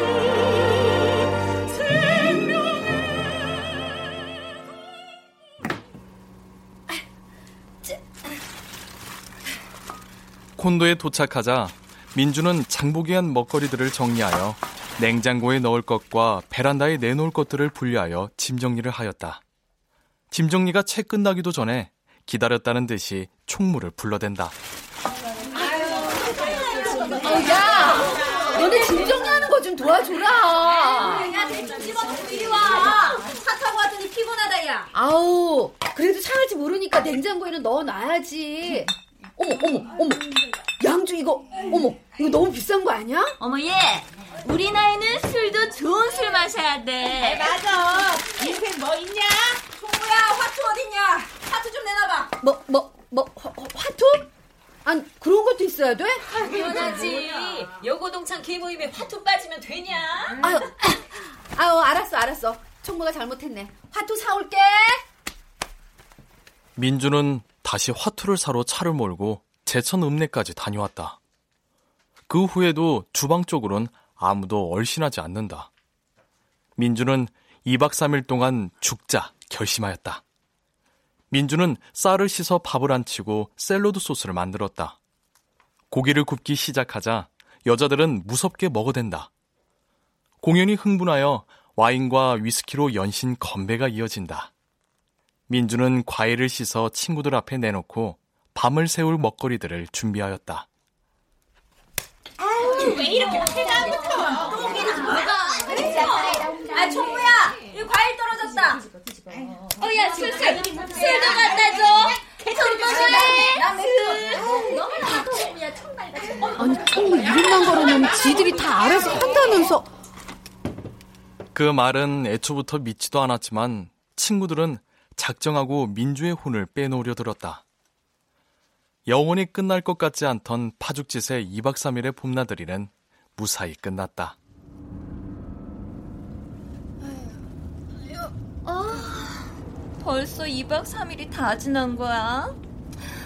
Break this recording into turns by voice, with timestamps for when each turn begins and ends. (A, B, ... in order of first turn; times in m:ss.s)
0:10.6-0:19.4 A
0:20.3-0:24.6 A
0:26.0-0:27.2 B
0:27.1-0:31.3 C
0:30.9-0:34.9 B
0:34.9-0:43.4 C
0:43.4-0:47.5 D
0:47.2-0:52.3 B
0:52.4-0:54.3 C
0:54.8-0:56.3 C
0:56.6-0:57.6 E
0:57.8-0:59.8 F
1:00.4-1:05.0 C
1:06.8-1:11.2 A
1:12.3-1:15.7 A
1:16.8-1:20.2 A
1:21.3-1:25.0 A
1:25.9-1:29.3 A
1:30.4-1:34.5 A
1:35.5-1:40.7 A
1:42.8-1:48.8 B
1:44.5-1:46.7 E
1:49.8-1:56.3 E
1:50.7-1:52.1 B
1:52.6-1:54.3 B
1:56.6-1:59.9 C
2:01.5-2:07.6 A
2:09.0-2:14.4 A
2:18.6-2:22.6 D